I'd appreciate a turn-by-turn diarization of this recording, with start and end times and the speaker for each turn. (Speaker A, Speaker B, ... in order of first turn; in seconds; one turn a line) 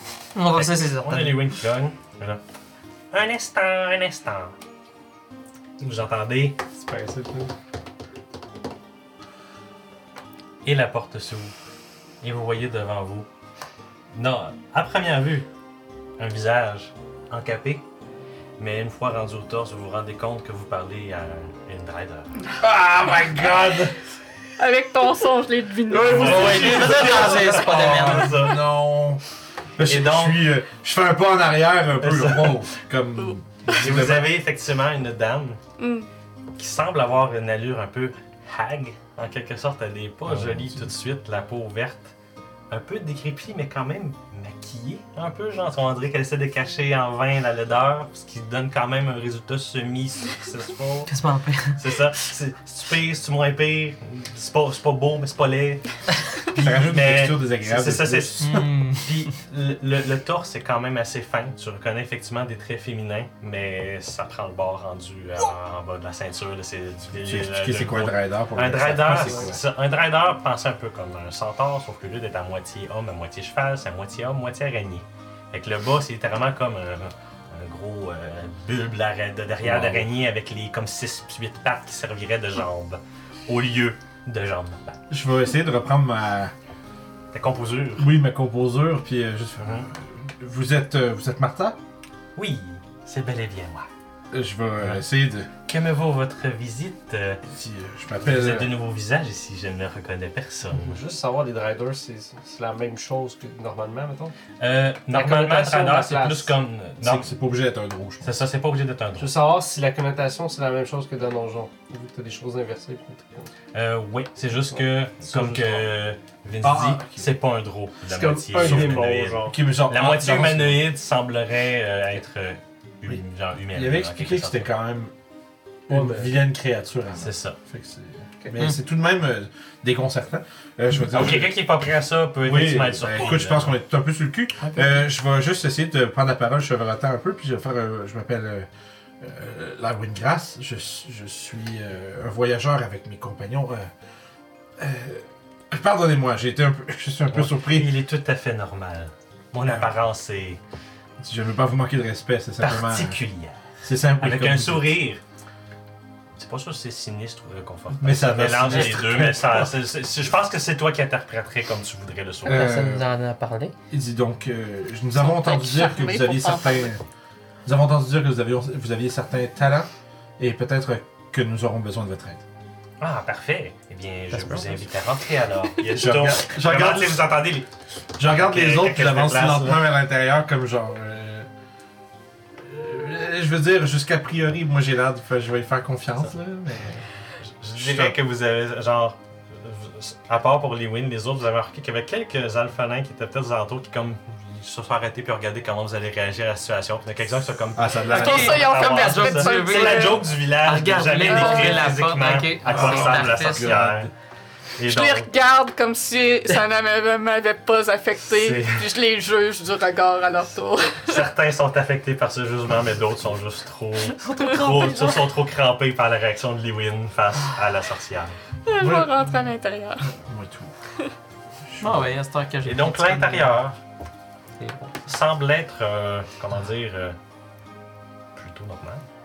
Speaker A: 0.3-1.5
Speaker B: 0.5-2.4
Speaker B: 3.1-4.5
Speaker B: 5.8-6.6
Speaker C: 6.8-7.5
Speaker B: 10.6-11.5
Speaker B: 12.2-13.3
Speaker B: 14.1-15.5
Speaker B: 16.2-17.9
Speaker B: 18.6-22.3
Speaker D: 22.6-23.9
Speaker E: 24.6-27.3
Speaker B: 25.9-28.6
Speaker D: 26.1-29.2
Speaker C: 26.1-27.4
Speaker A: 26.2-28.5
Speaker D: 29.8-34.3
Speaker B: 29.8-30.4
Speaker B: 32.0-32.6
Speaker B: 33.7-35.6
Speaker E: 35.8-36.1
Speaker B: 36.6-42.1
Speaker D: 40.2-40.9
Speaker B: 42.7-51.1
Speaker A: 51.1-52.0
Speaker B: 51.8-85.0
Speaker D: 56.6-58.7
Speaker A: 58.4-59.1
Speaker D: 67.1-69.6
Speaker D: 79.6-80.1
Speaker D: 85.1-86.5
Speaker B: 87.3-88.1
Speaker D: 88.0-91.8
Speaker B: 89.6-89.9
Speaker B: 92.4-93.9
Speaker D: 94.3-95.5
Speaker B: 95.7-97.4
Speaker D: 97.5-98.8
Speaker B: 98.2-101.0
Speaker C: 100.7-104.3
Speaker B: 104.6-107.3
Speaker C: 105.1-106.6
Speaker D: 107.0-108.3
Speaker B: 108.2-109.3
Speaker C: 109.2-113.5
Speaker B: 113.7-124.7
Speaker D: 115.3-115.8
Speaker D: 116.6-117.3
Speaker C: 118.0-119.5
Speaker D: 118.5-120.9
Speaker D: 123.7-125.1
Speaker C: 125.9-126.3
Speaker D: 125.9-131.6
Speaker B: 127.2-127.6
Speaker B: 131.1-133.8
Speaker D: 132.4-138.7
Speaker D: 139.2-143.9
Speaker D: 144.8-148.0
Speaker B: 147.3-150.6
Speaker D: 151.2-153.2
Speaker B: 152.6-153.6
Speaker D: 153.8-155.0
Speaker B: 154.2-155.2
Speaker B: 156.3-162.7
Speaker D: 158.0-159.7
Speaker D: 162.4-163.1
Speaker A: 162.5-163.7
Speaker D: 163.9-167.0
Speaker E: 165.2-166.9
Speaker D: 167.6-172.4
Speaker B: 173.0-177.7
Speaker D: 175.9-177.3
Speaker D: 178.2-181.5
Speaker B: 178.2-179.9
Speaker D: 182.6-187.1
Speaker B: 187.4-204.1
Speaker D: 187.8-188.2
Speaker D: 197.8-198.7
Speaker E: 198.1-200.2
Speaker A: 198.1-203.8
Speaker E: 201.2-201.9
Speaker D: 202.7-204.1
Speaker B: 204.8-205.3
Speaker E: 204.8-211.2
Speaker B: 208.3-208.9
Speaker B: 211.0-218.4
Speaker A: 214.1-215.2
Speaker E: 218.7-220.1
Speaker D: 218.8-219.4
Speaker D: 220.0-220.7
Speaker D: 221.7-222.1
Speaker A: 221.8-223.5
Speaker B: 222.6-223.8
Speaker C: 224.6-224.9
Speaker B: 225.0-227.2
Speaker B: 228.3-229.0